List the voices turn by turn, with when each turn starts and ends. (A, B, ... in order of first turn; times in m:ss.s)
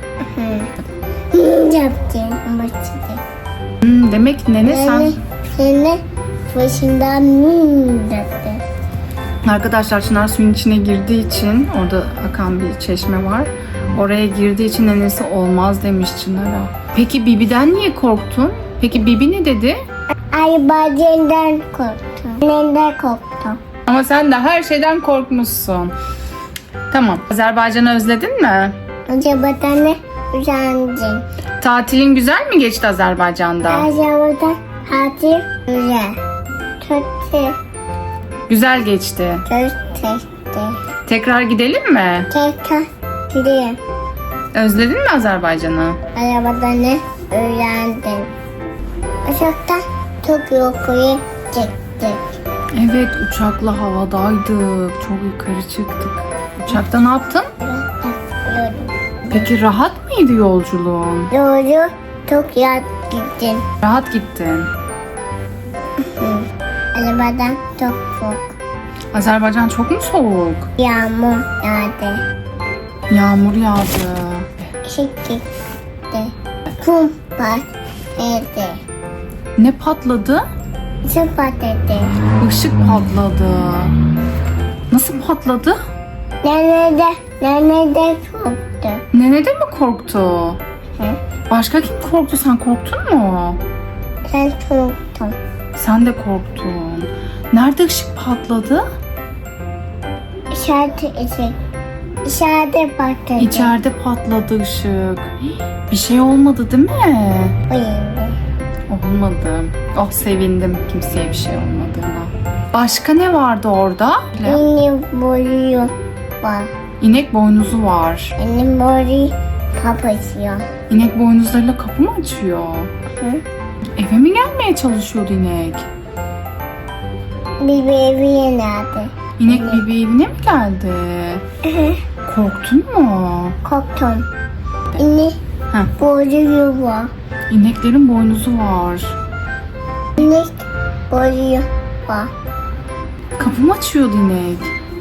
0:00.2-0:00.7 A
0:01.3-0:03.2 A
0:03.8-0:05.2 B
0:04.6-0:08.6 A
0:09.4-0:19.8 B
0:20.3-0:23.6 A
0:23.8-0:25.9 B
0:26.9-0:28.8 B
0:29.1-0:31.2 A
0:31.6-0:33.9 B
0:33.7-0:36.2 A
0:36.8-0:37.6 A
0:38.5-0:39.4 B
0:39.4-0:40.8 A
0:41.0-0:42.3 B
0:42.3-0:43.8 A
0:44.5-0:46.0 B
0:46.1-0:48.3 A
0:49.2-0:52.2 A
0:52.7-0:57.5 B
0:57.6-0:59.5 A
0:59.3-1:01.3 B
1:01.3-1:03.6 A
1:03.8-1:04.7 B
1:06.2-1:08.5 A
1:09.1-1:10.7 B
1:10.8-1:12.2 A
1:13.1-1:14.5 B
1:14.8-1:15.4 A
1:16.1-1:18.8 A
1:19.6-1:20.4 B
1:21.0-1:22.1 A
1:22.4-1:23.9 B
1:24.9-1:25.8 B
1:26.4-1:29.0 A
1:29.1-1:30.6 B
1:31.5-1:33.6 B
1:34.2-1:35.4 A
1:35.7-1:38.8 B
1:40.5-1:41.6 A
1:42.2-1:43.7 A
1:43.4-1:45.3 B
1:45.9-1:47.5 B
1:47.7-1:48.4 A
1:48.9-1:54.6 B
1:54.4-1:56.7 A
1:57.0-1:58.3 B
1:58.4-2:00.6 A
2:00.9-2:02.9 B
2:04.0-2:05.8 B
2:07.6-2:09.8 A
2:09.4-2:11.4 B
2:11.6-2:12.0 A
2:12.2-2:13.6 B
2:13.6-2:14.2 A
2:15.0-2:15.4 A
2:16.0-2:17.1 A
2:17.5-2:19.1 B
2:20.2-2:22.3 A
2:23.4-2:24.7 B